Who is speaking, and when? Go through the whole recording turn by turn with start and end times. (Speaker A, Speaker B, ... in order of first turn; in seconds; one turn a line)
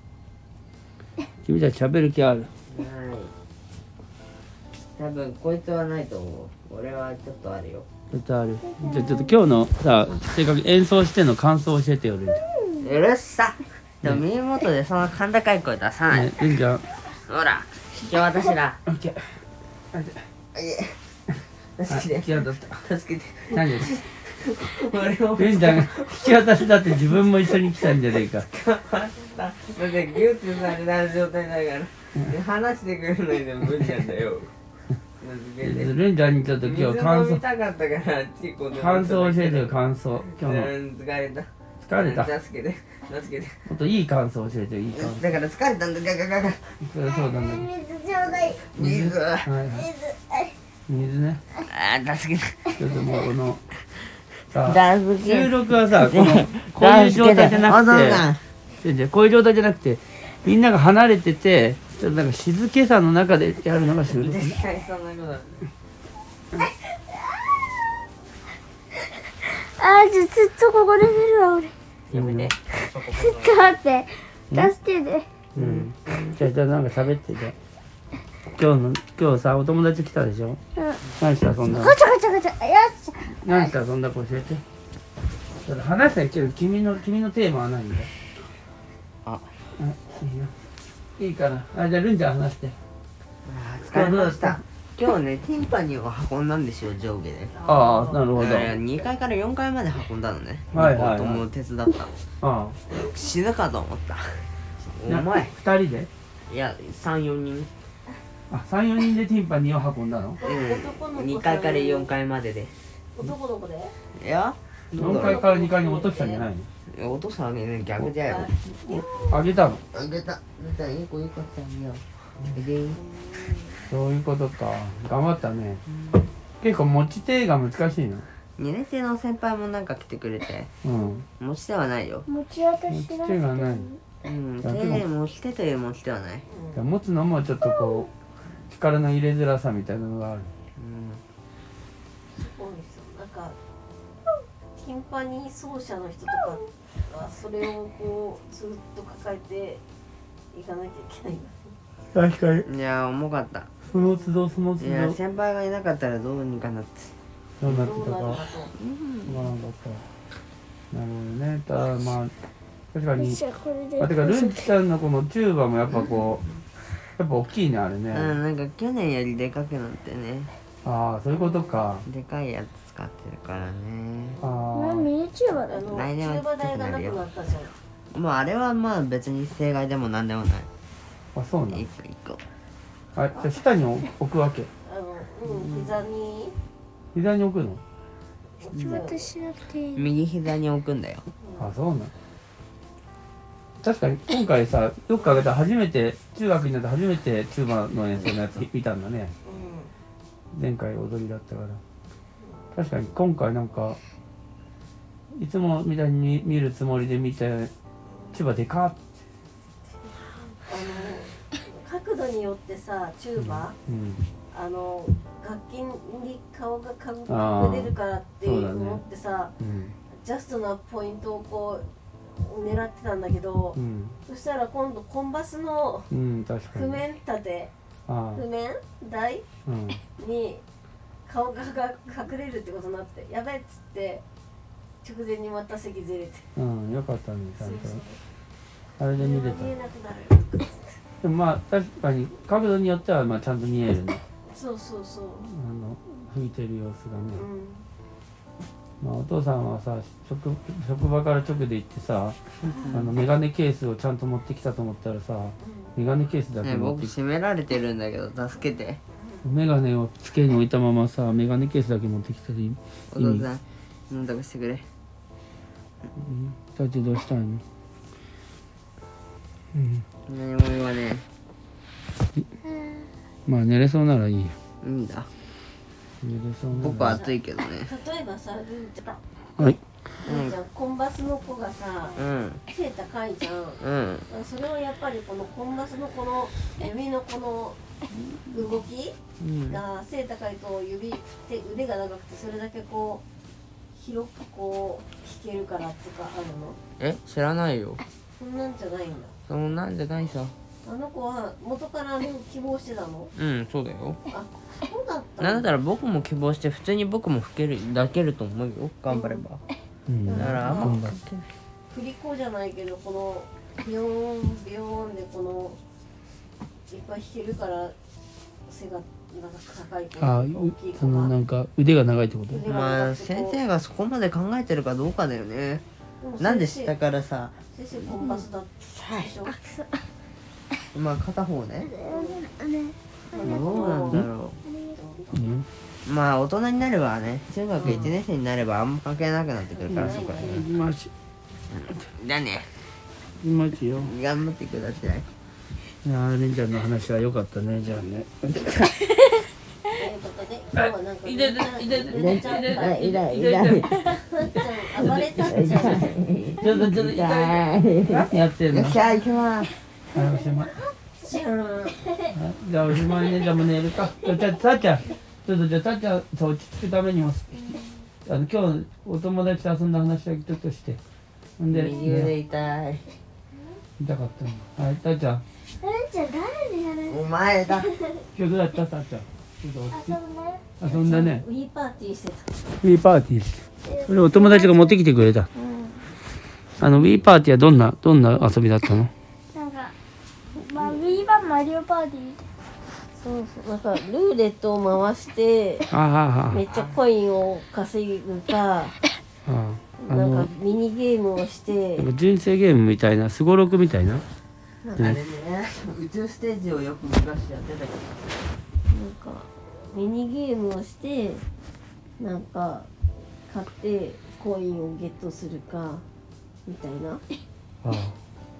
Speaker A: 1.4-2.5
Speaker B: 2.7-3.3
Speaker B: 5.0-7.9
Speaker A: 8.1-12.4
Speaker C: 8.6-9.4
Speaker C: 12.4-12.8
Speaker B: 12.8-16.4
Speaker A: 16.1-16.8
Speaker B: 17.3-18.8
Speaker A: 18.9-19.2
Speaker A: 19.9-20.2
Speaker B: 20.5-21.0
Speaker B: 21.8-34.5
Speaker A: 21.9-22.8
Speaker A: 23.5-24.0
Speaker A: 25.3-28.4
Speaker B: 35.2-35.9
Speaker A: 35.6-37.4
Speaker B: 36.6-39.8
Speaker A: 38.7-40.7
Speaker B: 40.3-43.6
Speaker A: 41.8-42.3
Speaker A: 43.7-45.4
Speaker B: 44.9-46.8
Speaker A: 46.8-47.7
Speaker C: 47.2-48.8
Speaker B: 48.4-49.5
Speaker A: 48.8-49.9
Speaker C: 49.7-50.5
Speaker A: 50.9-51.4
Speaker B: 51.7-52.7
Speaker A: 52.8-53.6
Speaker A: 54.5-58.2
Speaker B: 54.6-58.4
Speaker A: 58.8-64.6
Speaker B: 64.0-65.7
Speaker C: 69.4-71.7
Speaker B: 72.1-73.7
Speaker A: 72.1-72.5
Speaker C: 72.7-75.3
Speaker A: 75.5-77.5
Speaker B: 75.6-75.9
Speaker A: 78.5-80.6
Speaker C: 80.8-81.0
Speaker A: 81.2-82.0
Speaker C: 81.7-83.7
Speaker A: 83.4-84.6
Speaker A: 85.6-88.1
Speaker B: 89.2-89.5
Speaker A: 89.8-90.5
Speaker A: 91.2-92.7
Speaker B: 93.4-97.6
Speaker A: 93.9-94.6
Speaker D: 97.6-98.2
Speaker A: 97.7-98.7
Speaker B: 98.3-102.2
Speaker A: 100.7-101.4
Speaker A: 102.4-102.8
Speaker B: 102.9-104.4
Speaker B: 105.0-105.5
Speaker A: 105.1-106.1
Speaker B: 106.5-107.7
Speaker A: 108.5-110.4
Speaker D: 110.4-112.1
Speaker B: 110.4-112.7
Speaker D: 113.1-113.9
Speaker B: 114.1-115.4
Speaker A: 114.9-116.7
Speaker D: 115.0-116.5
Speaker B: 116.9-118.5
Speaker D: 118.2-119.5
Speaker A: 118.8-119.8
Speaker B: 119.9-123.0
Speaker D: 122.9-123.9
Speaker A: 123.9-125.8
Speaker B: 125.9-126.2
Speaker A: 126.6-128.3
Speaker B: 128.6-130.7
Speaker A: 130.8-131.2
Speaker D: 130.9-131.2
Speaker B: 131.4-132.3
Speaker C: 132.3-134.0
Speaker A: 132.9-133.9
Speaker B: 134.2-136.4
Speaker A: 134.6-135.0
Speaker D: 136.5-136.8
Speaker A: 136.7-138.1
Speaker A: 138.7-140.5
Speaker B: 140.8-141.2
Speaker D: 142.3-143.6
Speaker D: 144.7-149.8
Speaker D: 150.5-151.7
Speaker A: 152.1-152.7
Speaker B: 152.7-153.7
Speaker D: 153.9-154.4
Speaker A: 153.9-155.2
Speaker B: 154.8-157.1
Speaker A: 157.6-158.4
Speaker D: 157.6-158.7
Speaker B: 158.8-159.5
Speaker A: 159.2-160.1
Speaker A: 160.9-162.3
Speaker A: 162.9-163.4
Speaker C: 163.2-164.6
Speaker A: 164.0-166.4
Speaker A: 167.2-168.3
Speaker B: 168.1-170.5
Speaker A: 170.8-172.1
Speaker D: 171.3-171.9
Speaker B: 172.0-174.4
Speaker D: 174.4-174.8
Speaker A: 174.4-175.1
Speaker C: 174.7-175.8
Speaker D: 175.6-177.7
Speaker B: 175.9-177.2
Speaker B: 178.1-180.7
Speaker A: 181.3-181.8
Speaker B: 181.7-182.4
Speaker A: 183.1-184.7
Speaker D: 184.8-186.5
Speaker B: 185.6-185.9
Speaker A: 187.1-187.8
Speaker D: 188.6-189.3
Speaker C: 188.6-190.1
Speaker B: 189.9-191.2
Speaker D: 191.4-191.7
Speaker A: 191.6-192.1
Speaker A: 193.8-199.3
Speaker D: 199.4-199.9
Speaker A: 200.5-201.8
Speaker A: 202.7-204.0
Speaker A: 205.3-207.7
Speaker D: 208.1-208.4
Speaker A: 208.3-209.0
Speaker D: 210.2-213.7
Speaker A: 213.3-214.2
Speaker D: 214.5-219.5
Speaker A: 217.3-219.0
Speaker A: 219.6-219.9
Speaker D: 220.1-226.1
Speaker A: 223.7-224.2
Speaker A: 226.1-227.0
Speaker D: 226.7-227.7
Speaker A: 228.1-228.4
Speaker D: 228.3-229.4
Speaker A: 229.7-230.0
Speaker D: 230.2-230.6
Speaker D: 231.2-234.2
Speaker D: 235.0-236.4
Speaker A: 236.6-238.0
Speaker D: 237.6-238.2
Speaker A: 239.0-239.7
Speaker D: 239.2-240.9
Speaker A: 241.2-244.2
Speaker D: 244.5-245.5
Speaker A: 245.4-247.4
Speaker D: 247.3-247.8
Speaker A: 249.0-252.4
Speaker B: 252.6-253.1
Speaker A: 252.9-257.1
Speaker D: 255.6-255.9
Speaker B: 256.6-259.0
Speaker D: 259.1-259.5
Speaker A: 259.4-263.5
Speaker B: 263.1-264.9
Speaker A: 266.1-267.6
Speaker A: 269.7-270.0
Speaker B: 270.3-271.2
Speaker C: 272.6-273.1
Speaker A: 273.5-274.5
Speaker B: 274.8-275.3
Speaker A: 276.2-277.2
Speaker B: 276.7-277.9
Speaker D: 277.1-279.2
Speaker D: 280.2-287.8
Speaker B: 280.2-280.6
Speaker B: 282.1-282.6
Speaker B: 283.8-284.3
Speaker D: 288.5-289.2
Speaker B: 289.4-289.8
Speaker D: 289.7-293.2
Speaker D: 293.9-296.8
Speaker B: 297.0-298.0
Speaker D: 298.4-299.3
Speaker B: 299.5-300.5
Speaker D: 300.8-303.3
Speaker B: 303.3-304.2
Speaker D: 304.3-305.7
Speaker B: 305.4-309.6
Speaker D: 309.1-309.4
Speaker A: 310.1-311.2
Speaker D: 310.2-311.0
Speaker B: 310.3-311.5
Speaker D: 311.9-315.8
Speaker D: 316.9-317.9
Speaker D: 318.6-321.4
Speaker A: 320.2-322.6
Speaker D: 322.5-323.6
Speaker B: 322.6-325.8
Speaker D: 326.2-326.9
Speaker B: 326.4-327.6
Speaker D: 327.7-329.6
Speaker B: 328.9-329.3
Speaker C: 329.5-330.0
Speaker B: 330.9-331.9
Speaker C: 331.8-334.0
Speaker D: 332.1-332.4
Speaker D: 333.3-334.3
Speaker B: 333.4-334.6
Speaker C: 334.6-335.2
Speaker D: 334.9-335.4
Speaker A: 335.3-335.6
Speaker B: 336.0-340.7
Speaker D: 337.8-338.1
Speaker A: 337.8-338.1
Speaker D: 339.7-340.7
Speaker A: 339.9-341.1
Speaker B: 341.9-342.7
Speaker A: 343.4-344.1
Speaker B: 344.0-345.2
Speaker A: 346.0-348.9
Speaker D: 349.9-353.2
Speaker A: 350.8-354.0
Speaker B: 352.1-353.9
Speaker D: 354.0-356.1
Speaker A: 355.0-356.1
Speaker B: 355.0-359.7
Speaker A: 356.6-359.0
Speaker A: 360.1-360.7
Speaker D: 360.6-362.1
Speaker A: 362.3-367.6
Speaker A: 368.2-371.0
Speaker A: 371.6-372.3
Speaker B: 371.7-373.1
Speaker A: 374.0-375.4
Speaker C: 375.8-377.2
Speaker B: 377.1-377.9
Speaker C: 377.8-378.2
Speaker A: 378.3-380.2
Speaker C: 379.9-380.6
Speaker A: 380.8-381.4
Speaker D: 380.9-382.5
Speaker A: 382.8-385.5
Speaker C: 383.8-385.0
Speaker D: 385.6-385.9
Speaker A: 386.8-389.1
Speaker C: 389.5-389.9
Speaker C: 390.5-392.4
Speaker D: 393.1-396.0
Speaker A: 395.9-396.6
Speaker D: 396.5-399.0
Speaker B: 396.7-397.0
Speaker A: 399.4-400.5
Speaker D: 400.0-402.1
Speaker A: 402.0-404.2
Speaker B: 404.9-408.2
Speaker D: 408.9-411.4
Speaker D: 412.2-412.9
Speaker D: 413.5-416.0
Speaker D: 416.6-417.2
Speaker A: 417.8-418.1